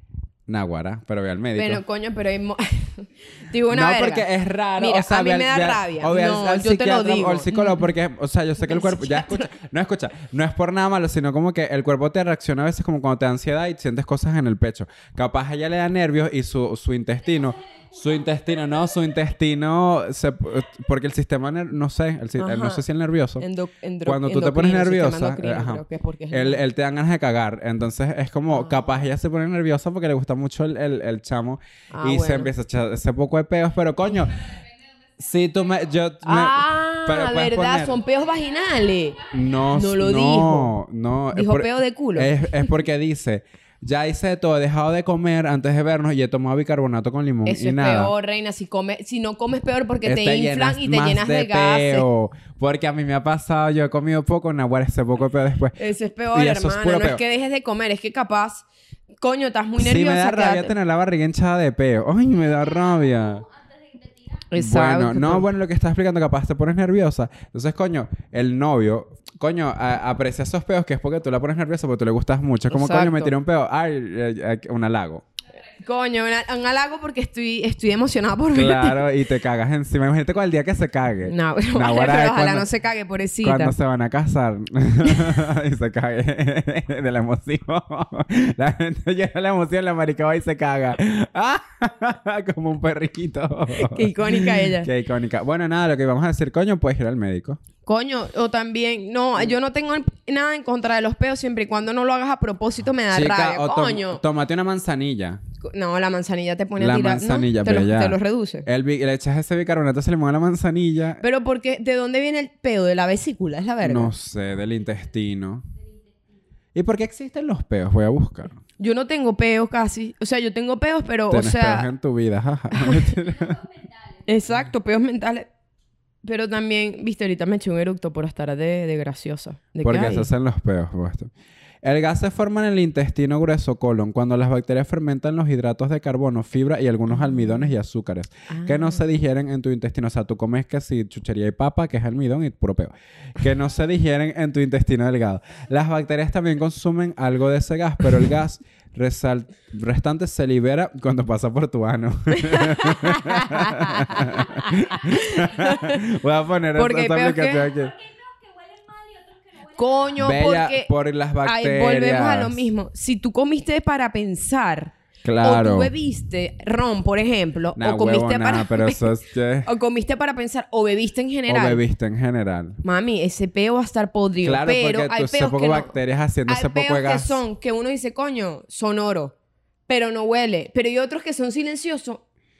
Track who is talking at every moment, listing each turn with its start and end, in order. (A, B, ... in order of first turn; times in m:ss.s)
0:00.5-0:01.8 A
0:01.6-0:07.9 B
0:03.7-0:23.4 A
0:08.6-0:09.5 B
0:17.3-0:19.2 C
0:22.4-0:22.8 B
0:23.4-0:26.6 B
0:24.0-0:34.5 A
0:28.5-0:29.0 B
0:31.9-0:32.5 B
0:34.4-0:35.6 C
0:35.2-0:37.9 A
0:36.2-0:39.2 B
0:37.9-0:39.7 C
0:39.3-0:48.1 A
0:39.7-0:40.7 B
0:41.3-0:42.7 B
0:47.5-0:52.1 B
0:50.0-0:55.8 A
0:55.8-0:58.7 B
0:56.3-0:57.2 A
0:59.2-1:00.7 B
0:59.8-1:03.4 A
1:02.3-1:04.5 C
1:04.5-1:05.4 B
1:04.6-1:15.2 A
1:12.7-1:13.3 B
1:15.7-1:19.1 B
1:18.5-1:22.7 A
1:21.2-1:23.7 B
1:23.4-1:37.6 A
1:33.8-1:34.9 B
1:37.9-1:44.2 B
1:43.1-1:45.4 A
1:45.6-1:48.7 B
1:46.8-1:51.2 A
1:51.2-1:54.1 B
1:53.8-1:55.7 A
1:54.7-1:55.0 C
1:55.7-1:56.4 C
1:56.8-1:58.6 A
1:58.8-2:01.9 B
2:01.3-2:03.6 A
2:02.7-2:03.0 B
2:03.0-2:04.3 C
2:04.3-2:05.5 B
2:06.2-2:10.3 B
2:09.8-2:11.3 A
2:11.8-2:37.9 A
2:17.1-2:17.7 B
2:18.5-2:19.1 B
2:32.3-2:36.0 B
2:36.8-2:37.7 B
2:37.4-2:40.1 C
2:39.8-2:40.9 B
2:40.2-2:42.7 A
2:41.4-2:49.1 B
2:45.2-2:45.9 A
2:47.8-2:49.7 A
2:49.6-2:51.8 B
2:51.5-2:52.8 A
2:52.8-2:56.0 B
2:54.4-2:57.4 A
2:56.5-2:59.3 B
2:59.9-3:02.2 B